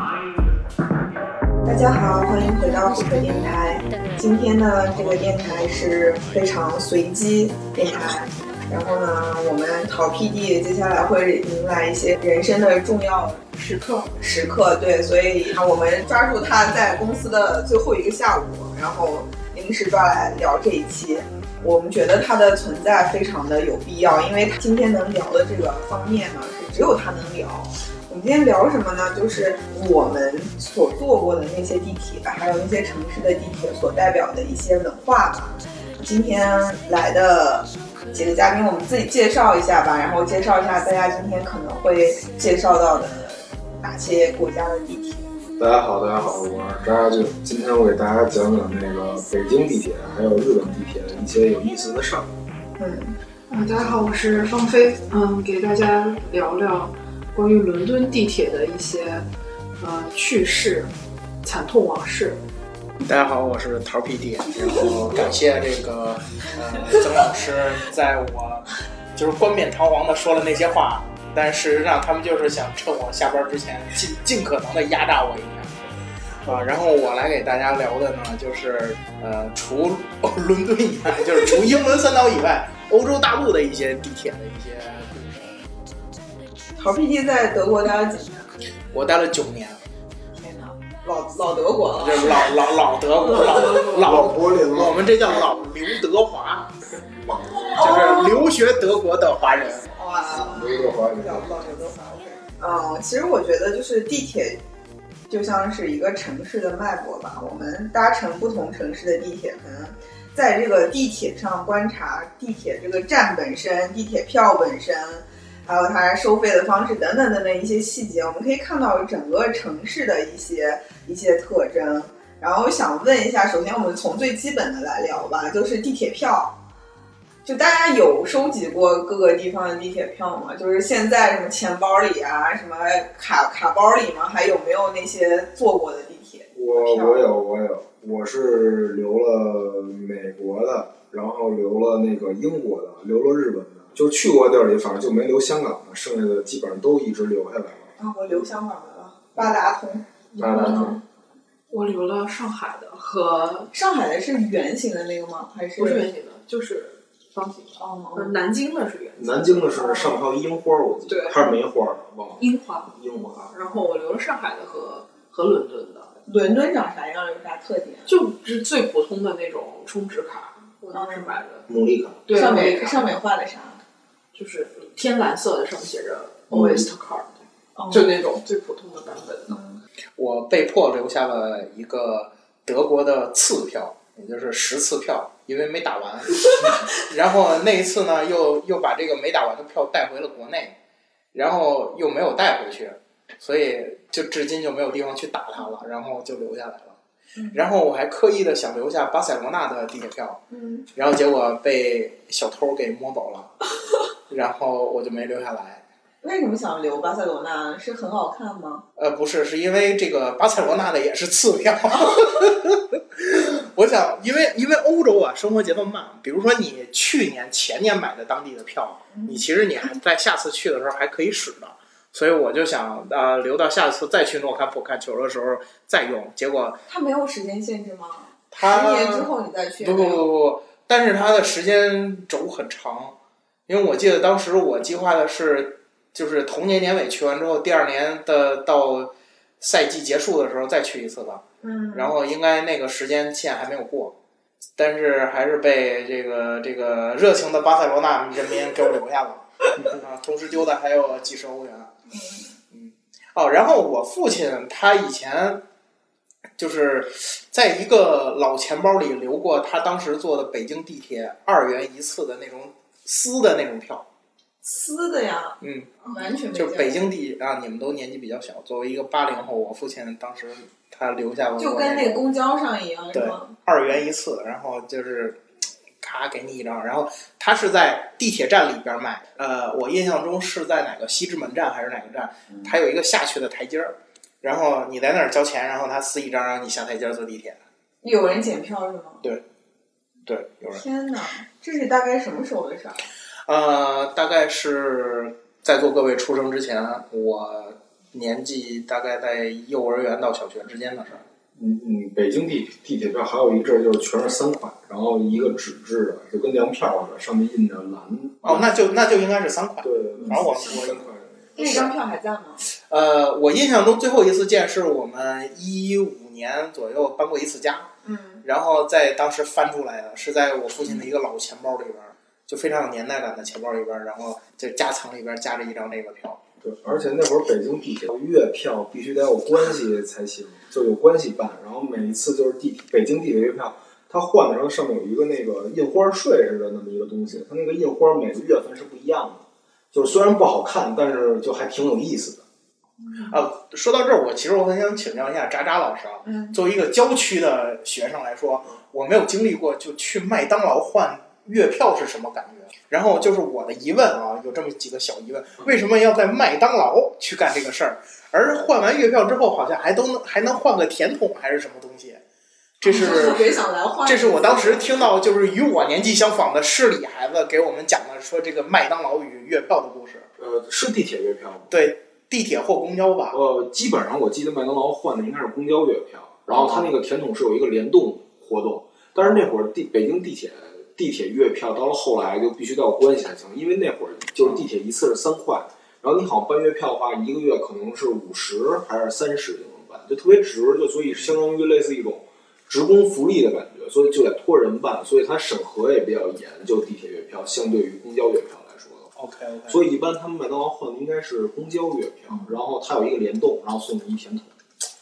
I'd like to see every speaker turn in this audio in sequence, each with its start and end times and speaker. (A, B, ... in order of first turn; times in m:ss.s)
0:01.6-0:13.4 A
0:13.5-0:14.1 B
0:14.2-0:45.3 A
0:45.6-0:52.3 C
0:52.8-0:53.2 A
0:53.5-0:59.3 B
0:59.8-1:00.9 B
1:01.4-1:02.4 B
1:03.0-1:15.8 D
1:16.4-1:25.6 D
1:26.8-1:28.4 A
1:28.9-1:29.8 D
1:30.4-1:32.6 A
1:32.0-1:36.7 D
1:33.2-1:34.4 B
1:33.9-1:35.1 C
1:37.0-1:38.1 C
1:37.7-1:39.9 D
1:37.8-1:38.3 A
1:39.9-1:44.6 A
1:40.3-1:41.6 C
1:45.3-2:06.5 A
2:07.4-2:17.3 A
2:16.5-2:27.9 C
2:28.0-2:30.9 A
2:30.3-2:31.0 B
2:30.4-2:31.0 C
2:31.7-2:33.7 B
2:33.7-2:36.1 A
2:35.8-2:40.0 B
2:37.8-2:38.4 A
2:39.2-2:43.5 C
2:41.1-2:41.6 B
2:42.4-2:46.1 B
2:46.3-2:48.1 A
2:48.1-2:51.6 B
2:50.9-2:51.4 A
2:51.7-2:52.3 C
2:52.3-2:53.2 B
2:52.3-2:53.8 A
2:54.3-2:57.4 B
2:56.5-2:56.9 C
2:57.8-2:58.2 A
2:57.9-2:59.6 B
2:59.5-2:59.8 A
3:00.2-3:10.7 D
3:11.3-3:17.0 D
3:17.4-3:17.6 A
3:17.5-3:20.4 D
3:20.5-3:20.9 A
3:20.9-3:23.5 D
3:24.3-3:25.8 D
3:26.2-3:28.8 A
3:29.0-3:46.8 D
3:39.1-3:39.4 A
3:46.9-3:50.2 A
3:48.5-4:04.1 D
4:01.6-4:02.1 A
4:04.8-4:11.9 D
4:12.1-4:12.4 A
4:12.7-4:15.6 D
4:16.6-4:24.0 D
4:24.6-4:27.0 A
4:25.6-4:25.9 D
4:26.5-4:32.2 D
4:31.6-4:33.5 A
4:33.1-4:35.4 D
4:36.0-4:47.6 D
4:48.0-4:49.2 A
4:50.2-4:50.8 D
4:50.7-4:53.0 A
4:53.5-5:01.2 D
5:01.5-5:08.7 C
5:08.4-5:11.0 D
5:09.8-5:11.9 C
5:10.2-5:10.9 A
5:11.6-5:12.6 A
5:11.6-5:11.9 D
5:12.7-5:17.9 D
5:18.0-5:18.4 A
5:18.4-5:26.4 D
5:26.6-5:42.4 C
5:43.2-6:02.2 D
5:46.2-5:46.6 A
6:02.8-6:03.5 D
6:02.8-6:05.1 A
6:04.0-6:10.3 D
6:10.4-6:11.7 C
6:11.7-6:13.4 D
6:13.3-6:39.1 C
6:16.5-6:16.8 D
6:39.2-6:39.8 D
6:39.7-6:44.5 C